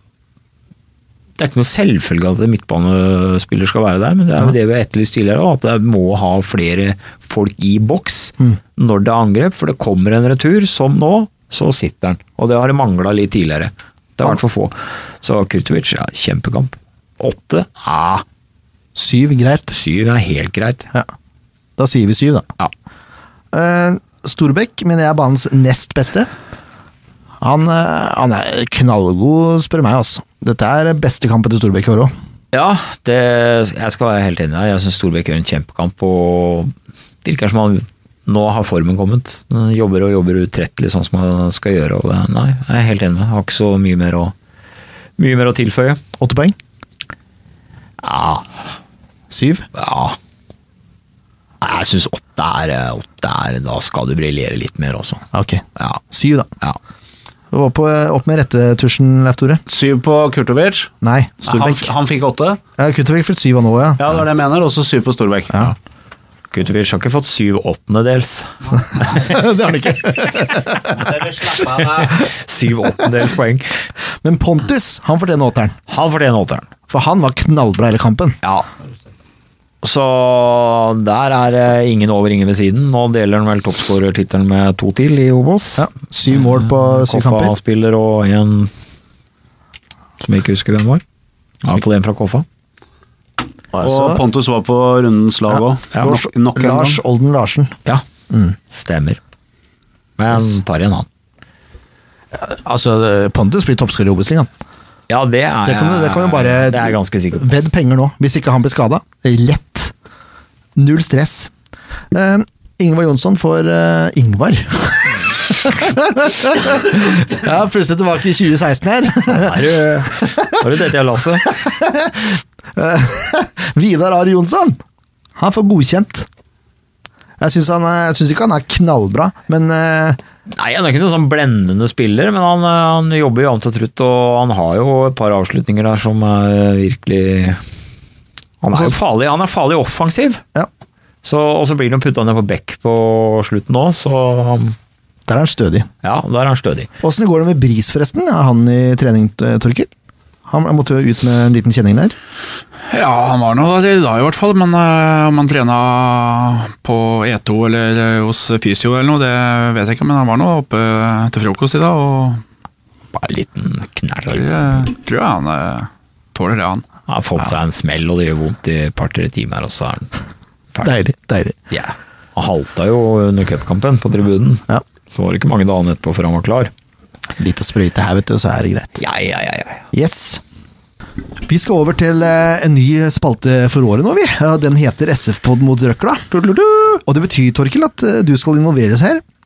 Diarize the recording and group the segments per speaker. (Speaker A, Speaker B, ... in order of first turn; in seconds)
Speaker A: 1.4-18.2, 19.7-20.9, 32.5-36.7, 37.2-44.3, 45.2-46.0, 48.0-48.6, 49.7-50.2, 51.6-55.2, 66.5-69.3, 71.8-73.9, 75.9-76.7, 79.8-85.8, 86.4-88.7, 90.2-91.0, 91.6-92.4, 98.7-99.2, 100.2-101.1, 105.1-107.4, 119.3-121.6, 130.5-137.6, 138.6-140.4, 141.2-144.8, 146.0-146.9, 163.1-164.8, 167.1-170.1, 171.7-176.7, 179.0-179.8
Speaker B: 18.9-19.8, 21.8-22.5, 23.5-26.3, 27.4-32.1, 46.2-46.5, 49.3-49.6, 55.3-56.5, 57.5-59.6, 61.0-61.9, 62.8-64.1, 68.9-71.2, 74.2-75.8, 76.9-78.3, 85.8-87.5, 93.7-94.2, 95.5-97.8, 98.3-98.5, 102.3-104.5, 105.6-109.9, 110.8-111.5, 112.1-119.6, 120.2-120.5, 121.5-124.8, 125.4-126.3, 127.4-130.2, 138.7-139.0, 145.3-145.9, 147.0-149.9, 150.5-152.1, 170.8-171.6, 177.4-179.0, 179.9-180.4, 181.5-186.3, 187.1-189.2
Speaker C: 59.7-60.9, 61.4-62.6, 64.0-65.6, 70.9-72.2, 93.8-97.0, 186.3-187.0
Speaker D: 152.9-162.4, 164.3-166.8